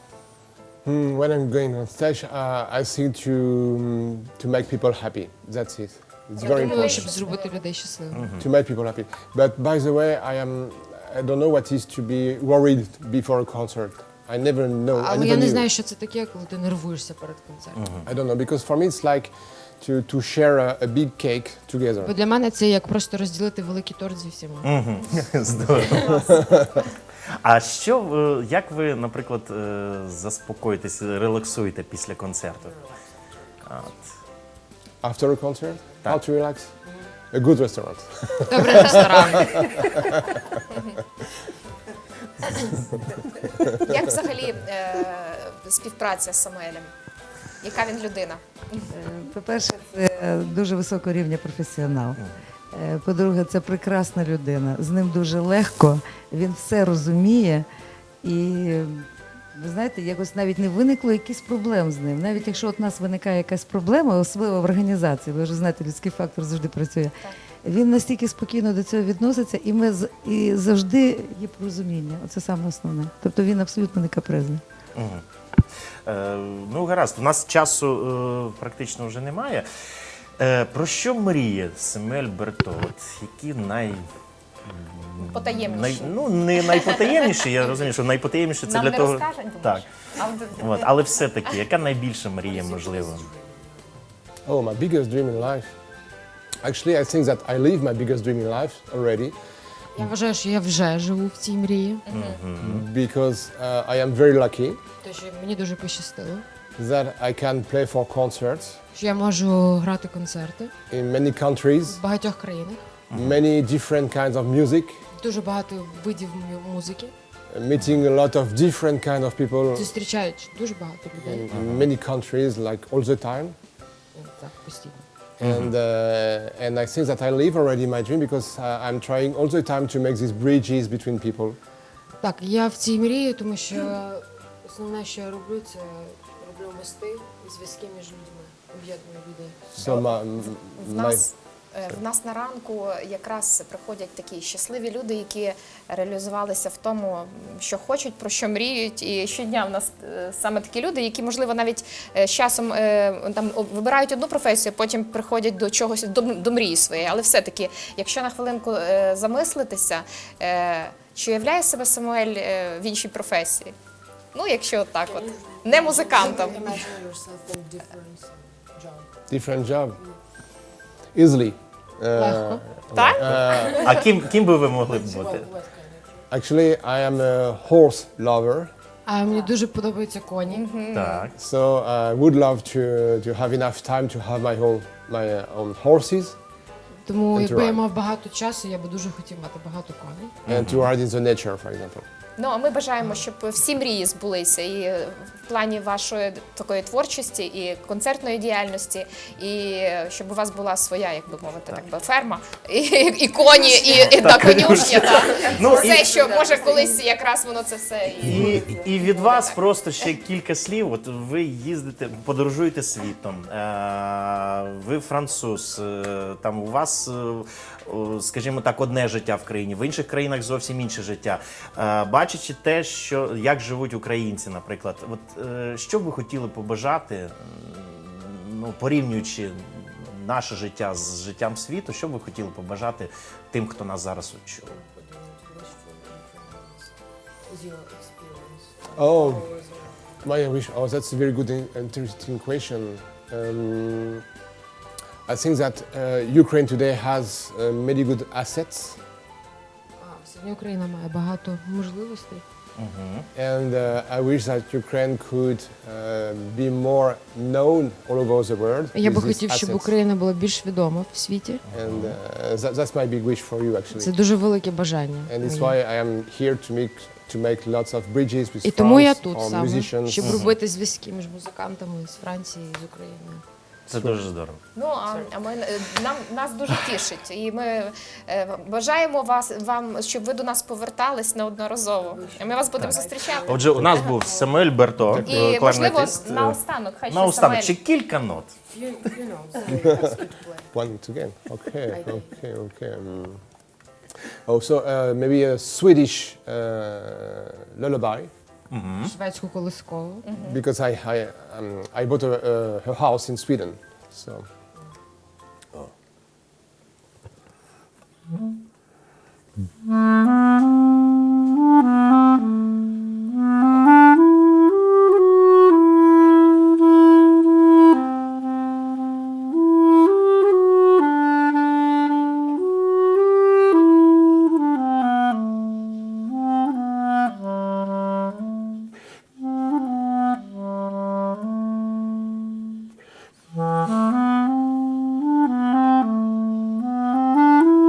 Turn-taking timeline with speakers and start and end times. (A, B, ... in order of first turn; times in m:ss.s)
0:00.8-0:07.1 A
0:06.4-0:08.3 B
0:06.4-0:07.2 C
0:07.3-0:07.6 D
0:08.1-0:08.4 E
0:08.3-0:15.7 A
0:14.9-0:18.0 B
0:18.1-0:22.2 A
0:22.0-0:24.7 B
0:24.6-0:26.4 E
0:25.9-0:26.3 B
0:26.1-0:26.4 D
0:27.4-0:32.8 E
0:32.6-0:34.2 D
0:33.7-0:33.9 E
0:35.0-0:36.7 A
0:36.8-0:37.1 D
0:37.3-0:40.4 A
0:38.5-0:39.7 B
0:40.7-0:41.0 C
0:43.1-0:43.7 D
0:43.8-0:46.9 C
0:47.6-0:48.9 C
0:48.9-0:57.7 F
0:58.2-1:14.6 F
1:15.0-1:15.2 E
1:16.1-1:19.7 E
1:20.4-1:24.1 E
1:24.7-1:29.9 E
1:25.2-1:27.9 C
1:28.6-1:31.1 C
1:30.6-1:33.3 E
1:32.4-1:34.1 D
1:34.5-1:35.7 A
1:36.6-1:39.3 A
1:40.0-1:42.1 B
1:42.1-1:42.4 C
1:42.1-1:42.8 E
1:42.6-1:44.8 A
1:45.0-1:46.4 B
1:46.8-1:48.8 A
1:49.0-1:50.7 B
1:50.9-1:52.0 A
1:51.9-1:52.9 B
1:53.1-1:53.4 E
1:53.1-1:55.1 A
1:55.2-1:57.1 B
1:57.5-1:59.9 A
1:59.7-2:01.5 B
2:01.2-2:03.6 A
2:01.5-2:01.8 E
2:04.1-2:05.0 B
2:05.4-2:11.6 A
2:05.4-2:05.7 E
2:12.2-2:19.9 B
2:19.8-2:21.3 A
2:20.8-2:43.8 C
2:44.3-2:46.9 C
2:45.0-2:49.3 D
2:49.3-2:50.0 A
2:51.1-2:54.0 A
2:52.2-2:52.6 B
2:52.9-2:54.0 C
2:53.2-2:55.5 E
2:54.7-2:56.3 D
2:56.3-2:58.7 A
2:59.1-3:00.7 B
3:00.5-3:01.3 C
3:00.9-3:01.4 E
3:01.4-3:06.4 A
3:07.1-3:10.4 B
3:07.3-3:07.8 A
3:10.5-3:10.9 E
3:10.5-3:12.1 A
3:12.4-3:29.6 C
3:23.8-3:26.1 E
3:25.1-3:27.2 D
3:28.2-3:54.8 E
3:28.5-3:28.9 D
3:54.7-4:00.3 D
3:58.9-3:59.5 A
4:00.2-4:04.2 A
4:05.3-4:09.0 A
4:10.0-4:12.4 B
4:12.8-4:13.3 E
4:13.4-4:19.9 A
4:18.9-4:21.6 B
4:21.7-4:22.2 E
4:21.7-4:24.2 A
4:24.0-4:25.8 B
4:25.3-4:30.5 A
4:28.6-4:33.4 B
4:30.2-4:30.5 E
4:33.9-4:34.6 E
4:33.9-4:34.2 A
4:34.7-4:44.1 C
4:42.0-4:44.5 D
4:42.8-4:46.6 E
4:45.1-4:45.7 A
4:45.2-4:47.8 C
4:47.1-4:48.6 E
4:48.7-4:50.7 D
4:49.7-4:50.2 A
4:50.7-4:53.4 A
4:51.9-4:52.4 D
4:54.3-4:58.3 A
4:58.7-4:59.1 E
4:59.0-5:00.2 B
5:00.2-5:00.6 C
5:00.4-5:04.5 A